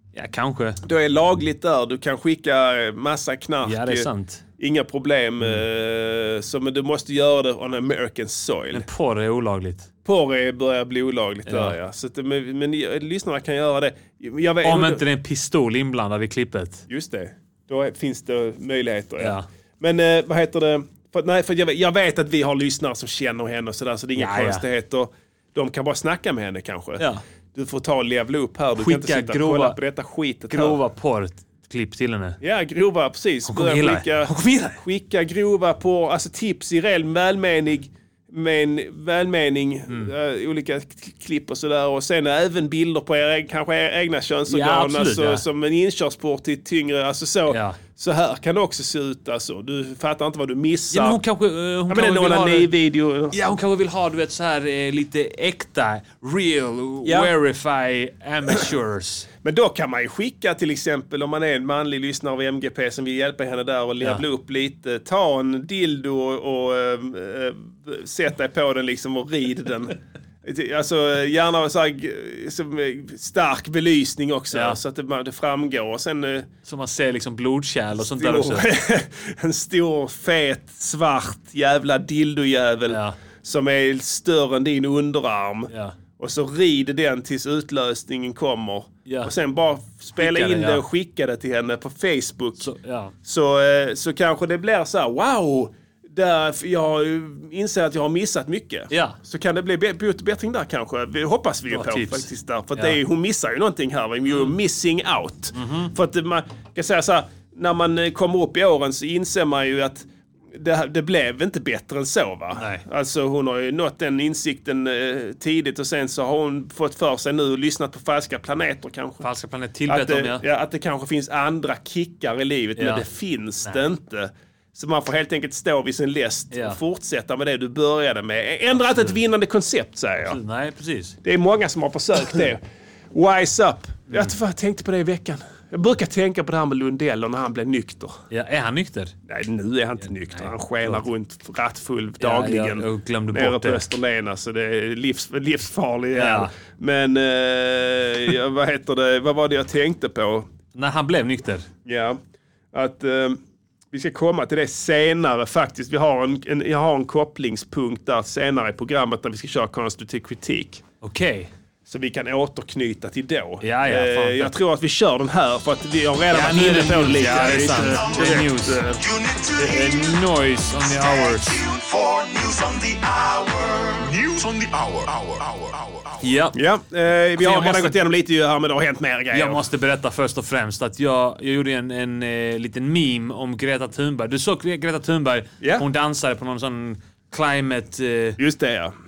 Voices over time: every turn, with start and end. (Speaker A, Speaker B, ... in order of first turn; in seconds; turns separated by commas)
Speaker A: 0.1-0.8, Speaker B: 0.8-8.8, Speaker A: 3.6-4.4, Speaker A: 8.7-9.9, Speaker B: 10.0-15.0, Speaker A: 11.4-11.7, Speaker A: 14.6-16.9, Speaker B: 16.9-30.8, Speaker A: 19.2-19.4, Speaker A: 24.1-24.6, Speaker A: 28.8-29.8, Speaker A: 30.5-32.4, Speaker B: 32.4-51.2, Speaker A: 33.5-34.8, Speaker A: 44.5-45.4, Speaker A: 47.5-47.8, Speaker A: 50.9-52.7, Speaker B: 51.9-53.4, Speaker A: 53.3-59.3, Speaker B: 57.0-57.3, Speaker B: 59.4-76.5, Speaker A: 74.5-74.8, Speaker A: 76.6-78.7, Speaker B: 78.0-92.7, Speaker A: 82.9-83.2, Speaker A: 85.7-86.0, Speaker A: 89.0-89.3, Speaker A: 90.2-90.8, Speaker A: 92.6-93.1, Speaker B: 93.2-119.3, Speaker A: 98.9-99.2, Speaker A: 101.7-103.0, Speaker A: 105.5-105.9, Speaker A: 112.6-112.8, Speaker A: 119.2-120.5, Speaker B: 119.9-130.4, Speaker A: 122.8-123.0, Speaker A: 126.5-126.8, Speaker A: 128.8-129.2, Speaker A: 130.2-131.2, Speaker B: 131.2-138.2, Speaker A: 138.3-139.1, Speaker B: 139.3-150.5, Speaker A: 140.3-141.0, Speaker A: 142.2-143.8, Speaker A: 146.1-146.5, Speaker A: 150.7-151.7, Speaker B: 151.8-152.2, Speaker B: 152.7-153.4, Speaker B: 153.9-160.8, Speaker A: 161.0-161.5, Speaker B: 161.8-169.0, Speaker A: 163.6-164.5, Speaker A: 166.3-168.9, Speaker C: 167.7-168.4, Speaker C: 169.0-170.2, Speaker A: 169.6-171.5, Speaker C: 170.8-176.2, Speaker A: 176.2-176.6, Speaker B: 176.5-179.7, Speaker A: 177.4-177.9, Speaker A: 179.3-188.4, Speaker B: 185.6-185.8, Speaker B: 188.4-188.9